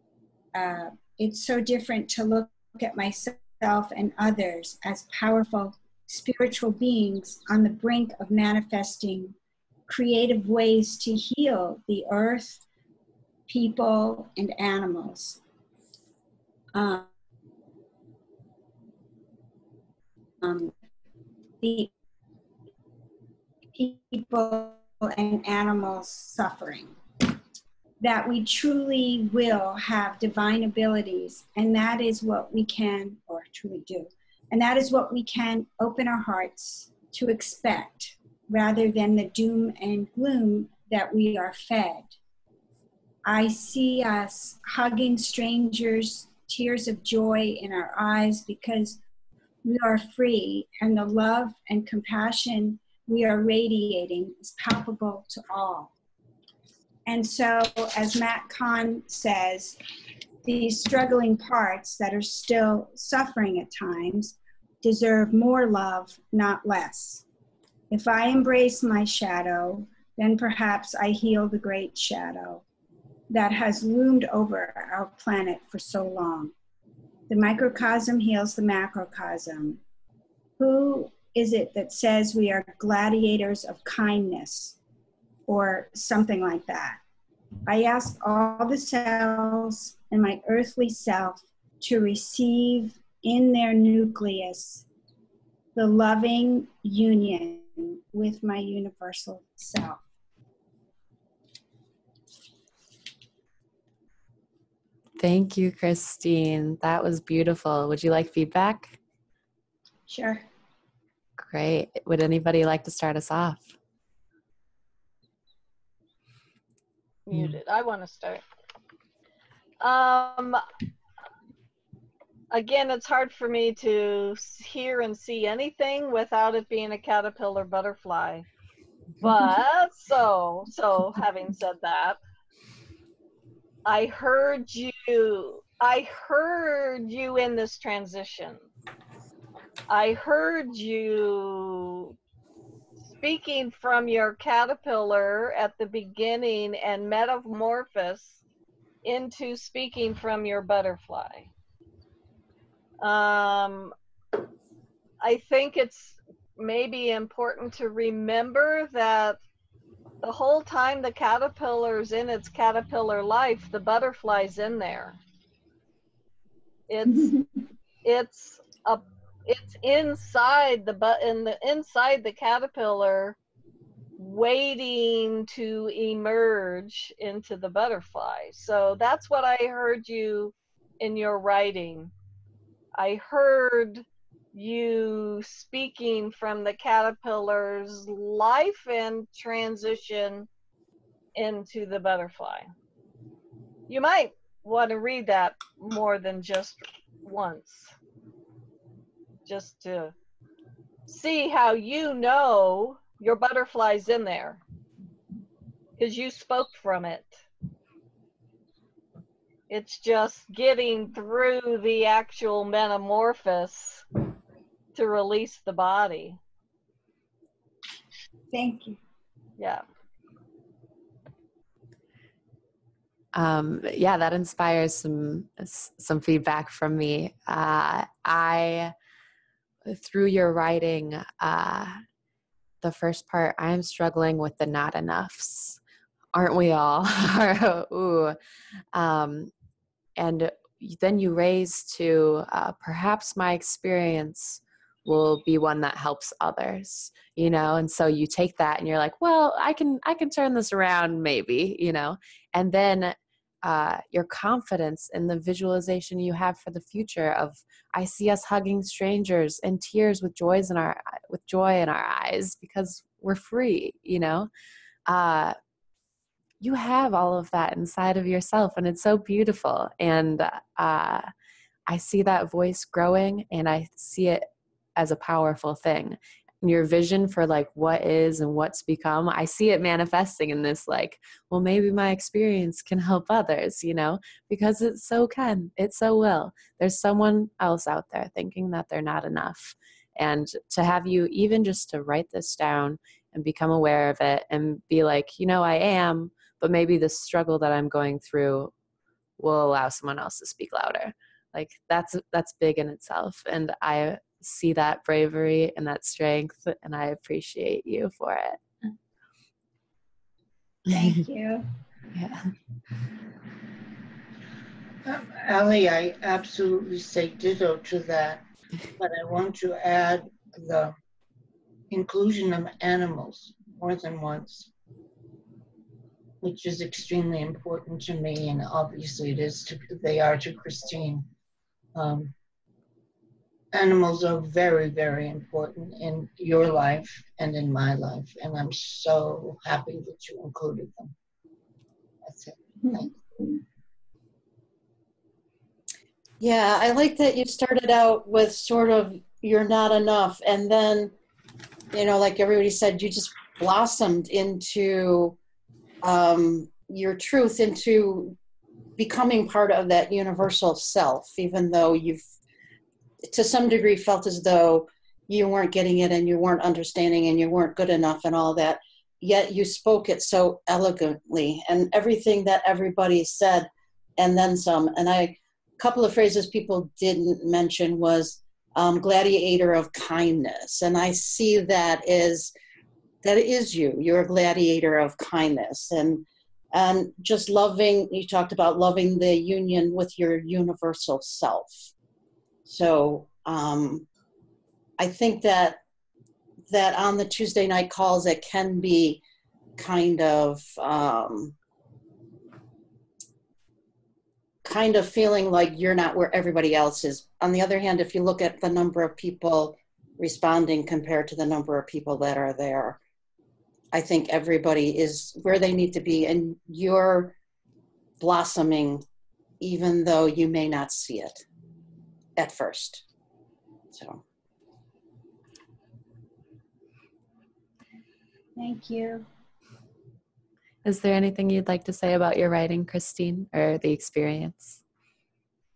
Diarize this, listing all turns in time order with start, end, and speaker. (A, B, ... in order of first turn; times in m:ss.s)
0:00.5-0:09.4 A
0:09.9-0:12.6 A
0:13.5-0:15.4 A
0:16.7-0:17.1 A
0:20.4-0:20.7 A
0:21.6-0:21.9 A
0:23.7-0:27.0 A
0:28.0-0:42.1 A
0:43.2-0:49.0 A
0:49.6-0:55.9 A
0:57.0-0:59.8 A
1:00.4-1:07.2 A
1:07.9-1:12.6 A
1:13.3-1:16.5 A
1:17.3-1:19.8 A
1:20.6-1:24.8 A
1:25.5-1:27.0 A
1:27.6-1:34.9 A
1:35.7-1:40.0 A
1:45.2-1:49.0 B
1:50.1-1:50.4 A
1:51.4-1:53.7 B
1:57.3-1:58.4 C
1:59.8-2:00.6 C
2:02.5-2:08.4 C
2:09.2-2:12.2 C
2:13.9-2:18.6 C
2:19.9-2:22.1 C
2:23.1-2:28.4 C
2:29.0-2:31.5 C
2:33.0-2:33.9 C
2:35.2-2:39.4 C
2:40.2-2:45.2 C
2:46.9-2:47.3 C
2:47.1-2:47.5 A
2:48.0-2:53.4 C
2:54.2-3:02.1 C
3:03.0-3:10.5 C
3:11.3-3:12.7 C
3:13.9-3:17.9 C
3:19.5-3:20.1 C
3:21.1-3:24.6 C
3:26.0-3:27.4 C
3:29.7-3:34.0 C
3:34.9-3:36.4 C
3:38.5-3:39.0 A
3:39.6-3:39.8 C
3:43.3-3:48.9 B
3:49.9-3:52.0 B
3:52.8-3:55.8 B
3:56.3-3:58.4 B
3:58.9-3:59.5 B
4:00.2-4:24.5 B
4:25.1-4:25.6 B
4:26.6-4:31.3 B
4:31.9-4:58.7 B
4:59.4-5:08.6 B
5:10.9-5:11.7 A
5:12.1-5:12.5 B
5:15.0-5:18.4 D
5:19.0-5:20.9 D
5:21.9-5:24.7 D
5:26.4-5:31.2 D
5:32.0-5:32.3 D
5:33.7-5:41.1 D
5:42.2-5:43.6 D
5:46.4-5:51.1 E
5:51.9-5:55.4 E
5:56.0-5:58.4 E
5:59.0-6:02.2 E
6:03.3-6:22.5 E
6:23.2-6:31.9 E
6:32.7-6:34.0 E
6:35.0-6:35.8 E
6:36.7-6:39.2 E
6:39.8-6:41.5 E
6:44.6-6:53.0 E
6:53.9-6:57.3 E
6:58.2-6:59.0 E
6:59.6-7:01.4 E
7:02.4-7:03.0 E
7:03.9-7:04.2 E
7:08.6-7:09.2 A
7:10.8-7:14.8 B